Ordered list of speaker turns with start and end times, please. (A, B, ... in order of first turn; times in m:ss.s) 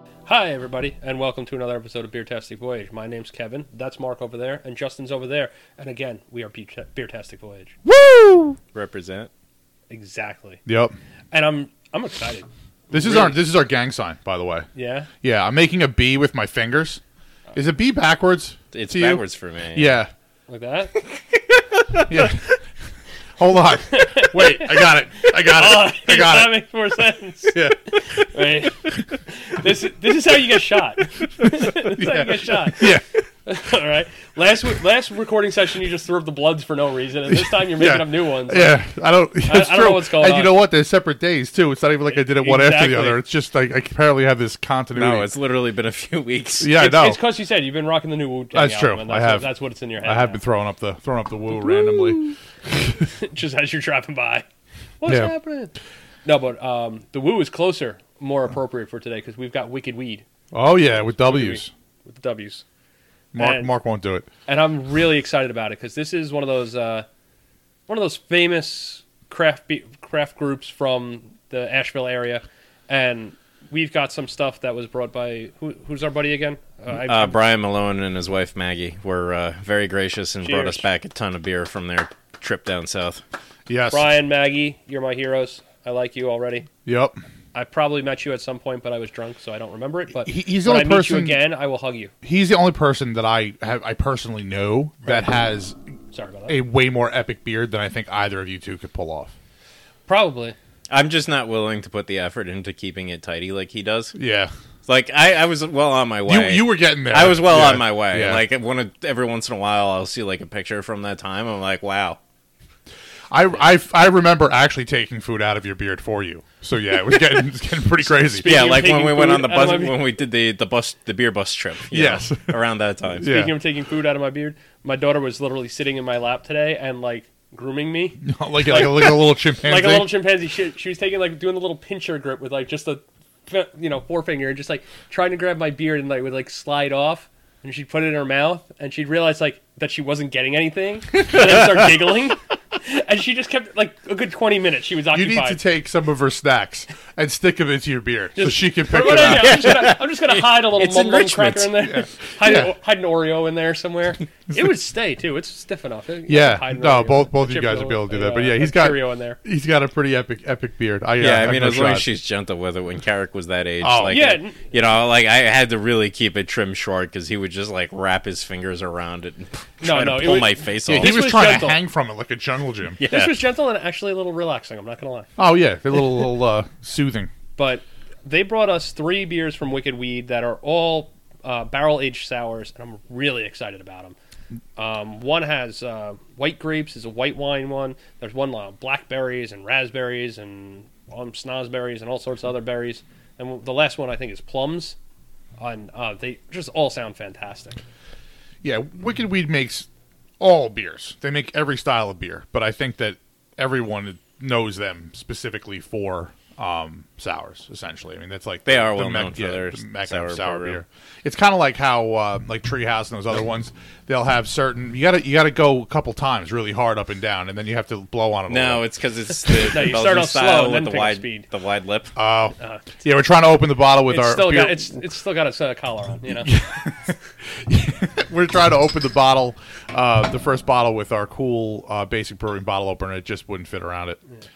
0:00.3-0:07.8 A
0:07.8-0:08.6 B
0:08.7-0:09.3 C
0:09.9-0:10.6 A
0:10.7-0:11.0 B
0:11.3-0:13.4 A
0:12.9-0:14.7 B
0:14.8-0:15.1 A
0:15.2-0:17.0 B
0:17.6-0:19.2 B
0:18.7-0:20.0 C
0:19.7-0:20.1 B
0:20.5-0:21.0 A
0:21.1-0:22.3 C
0:22.1-0:22.5 B
0:23.4-0:26.6 B
0:23.9-0:24.9 A
0:25.4-0:38.8 A
0:27.5-0:28.3 B
0:31.4-0:33.2 B
0:37.3-0:45.3 B
0:39.4-0:40.6 A
0:42.1-0:43.2 A
0:45.0-0:46.8 C
0:46.6-0:47.2 B
0:46.8-0:50.4 A
0:48.5-0:52.2 B
0:51.6-0:52.4 A
0:52.7-0:53.0 B
0:53.1-0:54.5 A
0:55.0-0:55.7 A
0:55.1-0:55.3 B
0:56.2-1:00.2 A
1:00.5-1:01.7 B
1:01.0-1:02.6 A
1:03.3-1:04.3 B
1:03.4-1:03.7 A
1:04.5-1:07.1 A
1:07.9-1:17.4 A
1:17.0-1:23.2 C
1:20.4-1:20.8 A
1:23.7-1:24.1 B
1:23.9-1:26.7 A
1:26.9-1:27.2 B
1:27.5-1:32.1 A
1:30.2-1:31.4 B
1:32.2-1:35.8 B
1:36.1-1:36.6 A
1:36.5-1:39.3 B
1:40.1-1:40.6 A
1:40.9-1:44.2 C
1:44.2-1:44.5 B
1:44.9-1:52.2 C
1:46.3-1:48.4 B
1:53.3-1:58.8 B
1:58.0-2:00.0 A
1:58.4-2:03.3 C
2:01.9-2:02.6 B
2:03.2-2:03.6 B
2:03.2-2:25.6 A
2:08.2-2:10.1 B
2:25.1-2:29.9 B
2:28.4-2:39.4 A
2:29.0-2:31.9 C
2:31.9-2:32.7 B
2:36.3-2:42.1 B
2:41.2-2:51.3 C
2:43.8-2:44.2 B
2:44.1-2:44.7 A
2:49.8-2:51.8 A
2:50.9-2:53.0 B
2:53.0-2:53.3 C
2:53.0-2:55.3 A
2:55.4-2:57.3 B
2:57.6-3:04.2 A
3:04.8-3:15.0 A
3:15.6-3:17.8 A
3:18.6-3:19.9 B
3:20.4-3:38.8 B
3:28.7-3:30.8 C
3:38.5-3:42.1 C
3:39.5-3:41.5 A
3:42.2-3:45.0 B
3:42.6-3:42.8 A
3:44.1-3:46.5 A
3:46.3-3:54.2 B